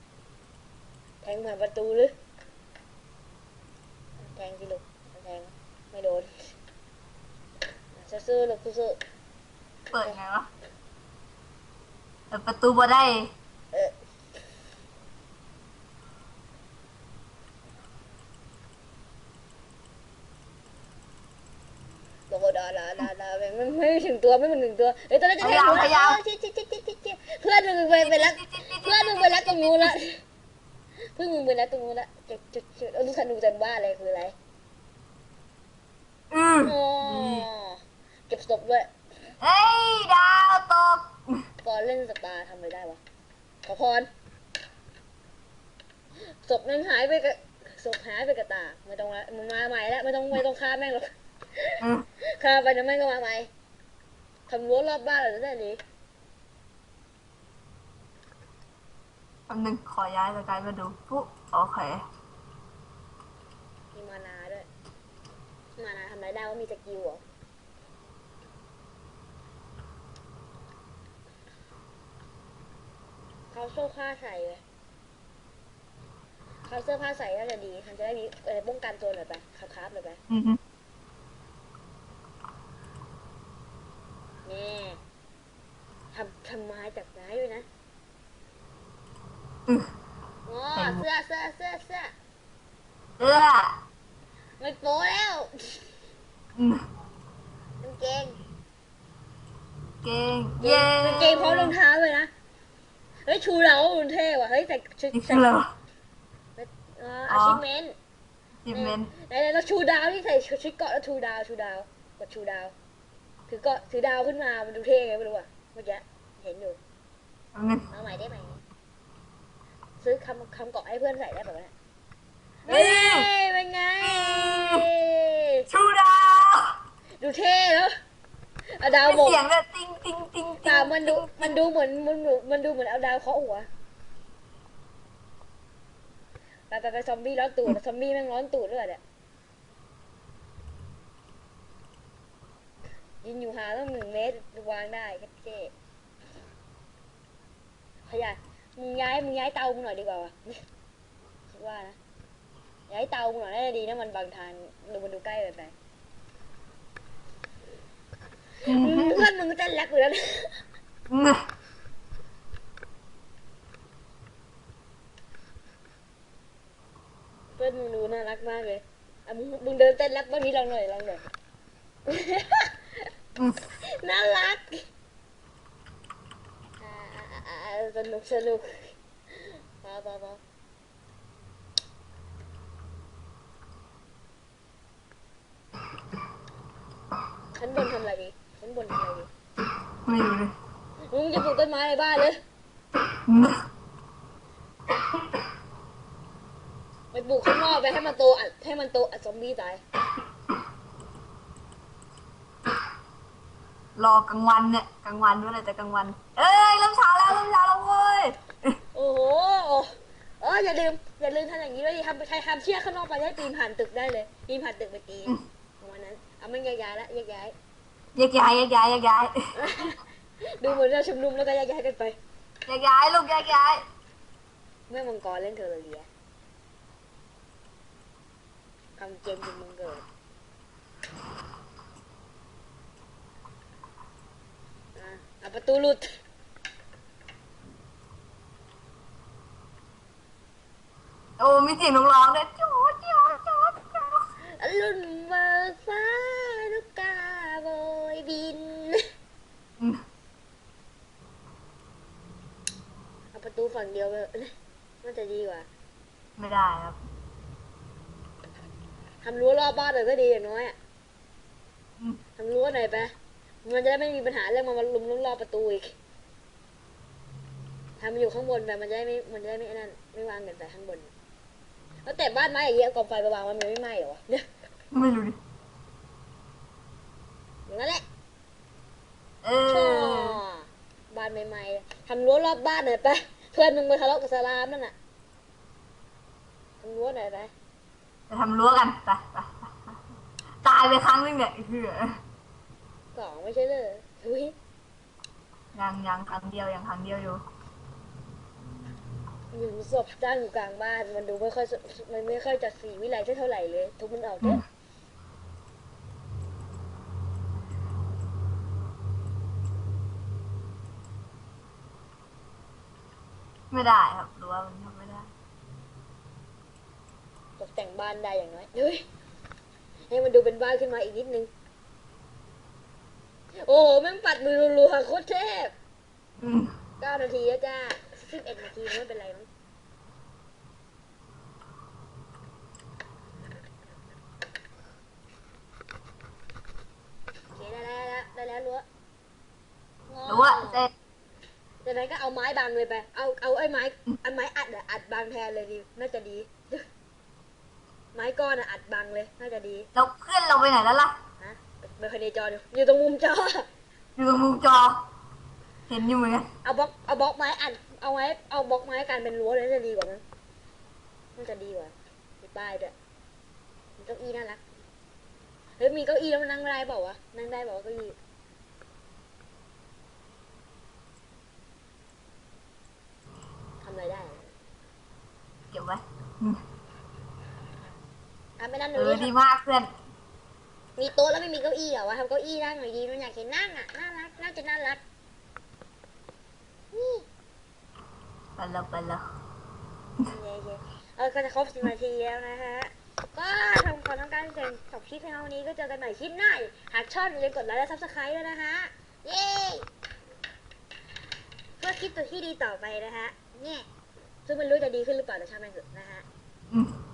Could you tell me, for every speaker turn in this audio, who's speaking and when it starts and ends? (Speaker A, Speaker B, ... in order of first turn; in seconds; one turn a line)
Speaker A: 1.2-2.1
Speaker A: 4.2-6.5
Speaker A: 7.9-9.0
Speaker B: 9.9-10.5
Speaker B: 12.3-13.3
Speaker A: 22.3-30.2
Speaker B: 25.4-26.2
Speaker B: 28.0-29.9
Speaker A: 31.1-34.3
Speaker B: 36.3-37.5
Speaker A: 36.6-38.9
Speaker B: 39.4-41.4
Speaker A: 41.6-43.0
Speaker A: 43.6-44.1
Speaker A: 46.3-51.7
Speaker B: 51.8-52.0
Speaker A: 52.4-53.5
Speaker A: 54.5-55.8
Speaker B: 59.5-62.0
Speaker A: 63.9-64.7
Speaker A: 65.8-67.2
Speaker A: 73.5-74.6
Speaker A: 76.6-80.2
Speaker B: 80.3-80.6
Speaker A: 84.4-85.0
Speaker A: 86.1-87.7
Speaker A: 90.5-92.1
Speaker B: 90.7-91.0
Speaker B: 93.2-93.8
Speaker A: 94.6-95.8
Speaker B: 96.5-96.8
Speaker A: 97.8-98.4
Speaker B: 100.0-101.7
Speaker A: 100.6-102.3
Speaker A: 103.2-105.5
Speaker B: 105.1-105.7
Speaker A: 106.6-107.9
Speaker B: 107.3-107.6
Speaker B: 108.6-109.1
Speaker A: 108.7-112.7
Speaker A: 113.5-116.8
Speaker B: 117.5-117.8
Speaker A: 117.9-118.6
Speaker A: 120.0-121.7
Speaker B: 122.6-123.3
Speaker A: 122.7-125.6
Speaker B: 124.0-124.8
Speaker B: 125.7-126.8
Speaker A: 127.2-127.9
Speaker A: 128.7-129.4
Speaker B: 129.0-131.6
Speaker A: 130.6-133.7
Speaker A: 136.7-139.0
Speaker A: 143.2-145.7
Speaker A: 148.1-150.6
Speaker A: 151.5-152.0
Speaker A: 152.9-155.7
Speaker B: 158.7-159.2
Speaker A: 158.7-160.6
Speaker B: 161.1-161.4
Speaker A: 167.6-171.2
Speaker A: 172.1-173.1
Speaker A: 173.9-174.8
Speaker A: 176.8-180.4
Speaker A: 187.6-189.3
Speaker B: 190.1-190.5
Speaker A: 191.1-192.4
Speaker B: 193.3-193.6
Speaker A: 197.1-199.8
Speaker B: 204.0-208.8
Speaker A: 208.9-217.5
Speaker B: 218.2-219.3
Speaker A: 219.5-220.0
Speaker A: 220.6-222.2
Speaker B: 222.7-223.8
Speaker A: 224.9-226.1
Speaker A: 229.0-230.0
Speaker A: 234.9-236.1
Speaker B: 241.4-244.2
Speaker A: 244.6-249.0
Speaker A: 253.3-255.7
Speaker B: 256.4-257.0
Speaker A: 259.2-260.8
Speaker A: 262.4-263.1
Speaker A: 263.6-265.9
Speaker A: 268.0-271.1
Speaker A: 272.1-274.4
Speaker B: 274.9-275.4
Speaker A: 277.7-278.0
Speaker B: 279.4-280.4
Speaker A: 279.7-284.9
Speaker A: 286.8-287.5
Speaker B: 288.3-289.7
Speaker B: 290.6-292.1
Speaker A: 293.1-294.5
Speaker B: 295.7-297.4
Speaker A: 299.5-304.6
Speaker B: 313.7-315.3
Speaker A: 317.6-319.0
Speaker A: 320.1-321.5
Speaker A: 323.6-325.7
Speaker B: 326.4-326.7
Speaker A: 327.0-329.5
Speaker A: 337.5-338.8
Speaker A: 340.1-340.8
Speaker B: 340.3-340.9
Speaker A: 341.8-346.8
Speaker A: 348.1-349.9
Speaker B: 349.9-351.1
Speaker A: 351.4-353.6
Speaker B: 354.1-355.1
Speaker B: 355.9-356.5
Speaker A: 356.6-360.2
Speaker A: 361.4-362.9
Speaker A: 364.0-364.6
Speaker A: 365.8-368.1
Speaker A: 373.8-374.5
Speaker B: 375.7-376.6
Speaker A: 378.6-379.3
Speaker B: 378.9-379.9
Speaker A: 381.0-385.0
Speaker A: 386.9-387.2
Speaker B: 388.6-389.2
Speaker A: 390.2-399.9
Speaker A: 401.8-403.9
Speaker A: 404.4-406.2